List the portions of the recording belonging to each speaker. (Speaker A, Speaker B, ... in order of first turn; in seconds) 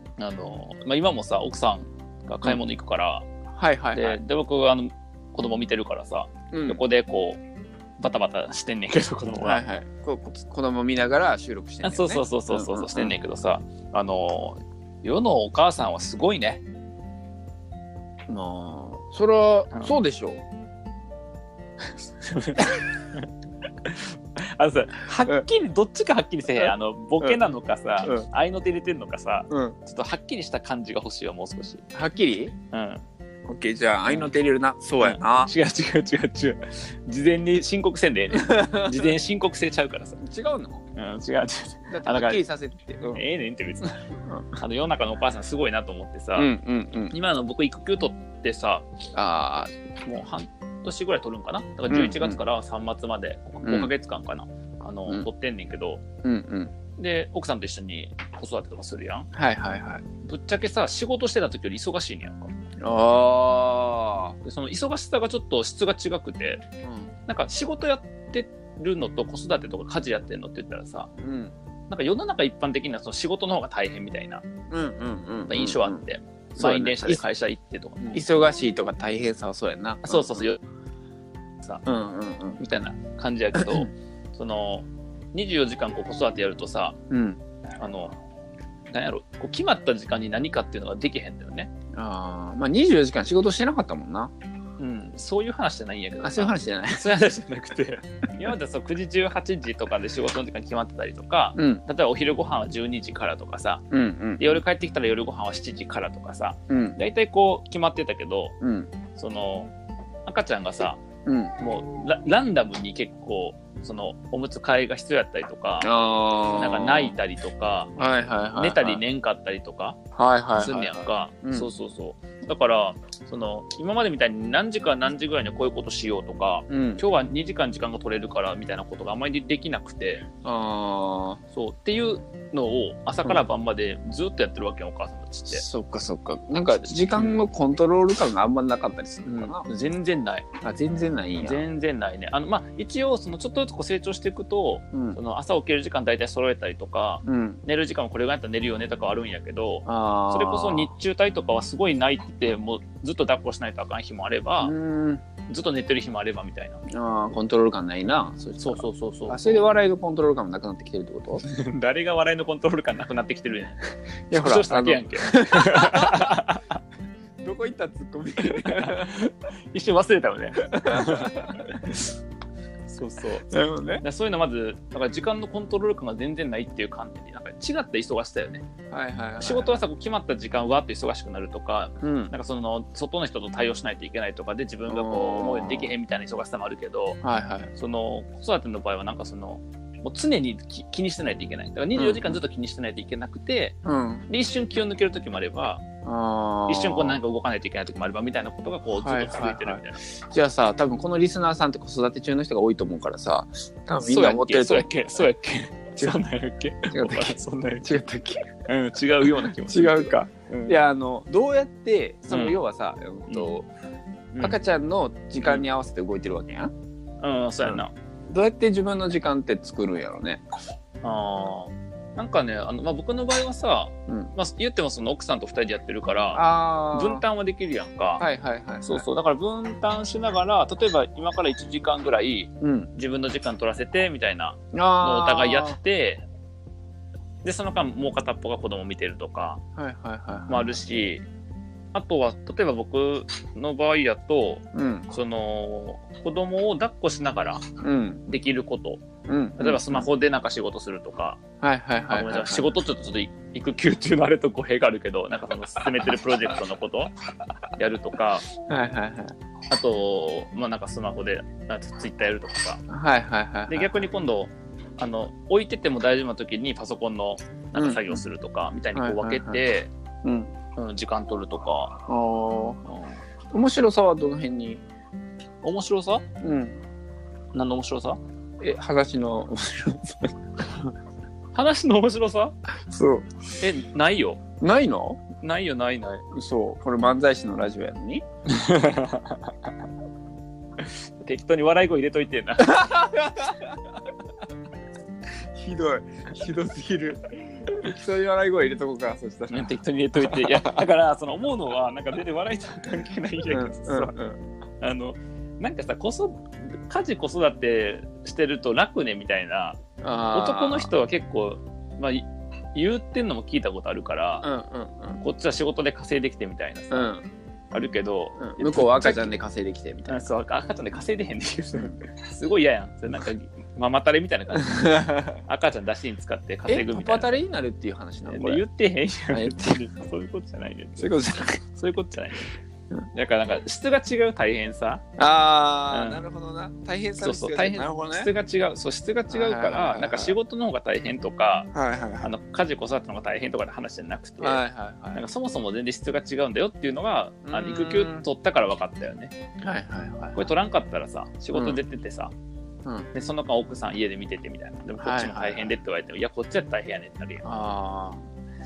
Speaker A: 0.2-3.2, 3.9-7.4, 8.0-9.6, 11.8-16.6, 19.7-20.0, 22.2-23.3, 23.8-31.8, 32.7-33.0, 34.1-34.3, 35.0-40.2, 40.9-42.4, 43.1-44.0, 44.6-46.5, 47.1-48.9, 50.0-56.0, 57.0-59.3, 60.2-62.5, 64.4-66.6, 67.3-71.1, 71.9-74.4, 75.5-78.2, 80.0-80.6, 82.6-87.0, 87.8-88.2, 88.9-91.7, 94.8-103.8, 104.4-108.5, 109.1-109.7, 110.2-111.0, 111.6-115.9, 116.5-117.9, 118.5-120.0, 120.6-130.2, 131.5-135.6, 136.9-137.4, 139.2-140.5, 141.4-154.7, 155.4-156.8, 158.6-159.7, 161.4-163.8, 164.3-166.8, 168.6-172.0, 172.9-178.7, 179.4-187.2, 187.8-193.8, 194.3-195.8, 196.7-200.0, 204.0-207.9, 208.7-210.8, 212.3-212.6, 217.2-217.9, 221.0-228.2, 228.8-236.2, 237.4-239.6, 240.5-241.2, 241.9-247.7, 248.3-249.1, 249.6-251.4, 252.1-257.1, 257.8-258.5, 259.7-262.8, 263.7-269.9, 270.8-272.0, 272.8-273.2, 275.6-276.2, 277.5-278.2, 281.5-282.5, 283.6-284.4, 285.4-286.2, 288.5-289.5, 291.2-293.0, 299.5-304.1, 304.8-309.8, 310.3-314.5, 315.2-317.1, 317.7-319.3, 320.1-327.4, 328.2-331.1, 331.7-332.6, 333.1-335.0, 335.9-336.2, 337.2-341.7, 342.2-344.6, 345.1-349.3, 350.3-352.3, 353.1-357.4
Speaker B: 3.5-4.2, 6.5-6.8, 9.4-13.2, 18.3-20.4, 26.6-27.5, 29.5-29.8, 31.9-32.5, 33.5-35.5, 38.3-39.2, 40.2-40.8, 41.9-43.2, 44.2-44.5, 46.4-47.1, 49.1-49.7, 51.9-52.4, 53.6-53.9, 56.2-56.7, 59.3-60.0, 62.8-64.4, 66.8-67.1, 71.2-71.5, 74.7-76.0, 76.6-77.2, 78.1-80.5, 81.8-82.6, 83.5-83.9, 87.1-87.4, 91.9-94.3, 96.2-97.1, 101.5-101.8, 103.9-104.6, 106.7-107.0, 108.6-108.9, 111.2-111.5, 115.8-117.1, 118.0-119.0, 120.1-121.7, 126.7-127.0, 130.4-131.4, 135.5-139.7, 140.6-141.6, 144.9-145.2, 147.2-147.6, 149.8-150.9, 154.6-155.2, 156.9-161.4, 164.3-166.4, 167.4-169.2, 170.6-171.7, 173.5-174.0, 178.9-179.8, 182.0-182.3, 184.9-185.9, 187.2-187.7, 191.9-192.4, 193.8-194.3, 196.0-197.2, 198.9-205.3, 206.9-208.5, 209.7-213.7, 214.4-216.7, 217.6-220.4, 226.3-227.2, 228.2-229.0, 232.6-232.9, 234.7-235.8, 239.8-240.8, 244.7-245.1, 247.8-248.2, 249.3-250.1, 251.6-252.7, 258.6-259.3, 262.9-264.0, 267.7-268.2, 268.9-269.6, 270.2-270.5, 272.1-272.8, 273.5-274.8, 276.4-276.8, 278.6-280.8, 282.9-283.3, 284.6-285.2, 286.3-288.2, 292.6-294.0, 295.5-300.9, 303.5-304.4, 310.0-310.9, 314.4-315.2, 316.9-317.2, 318.4-320.3, 324.5-325.4, 326.6-328.6, 329.3-329.8, 331.0-331.6, 335.2-338.3, 339.3-340.4, 341.7-342.3, 344.4-345.2, 347.5-348.2, 349.6-350.4, 351.5-351.8, 355.0-355.8, 357.4-358.2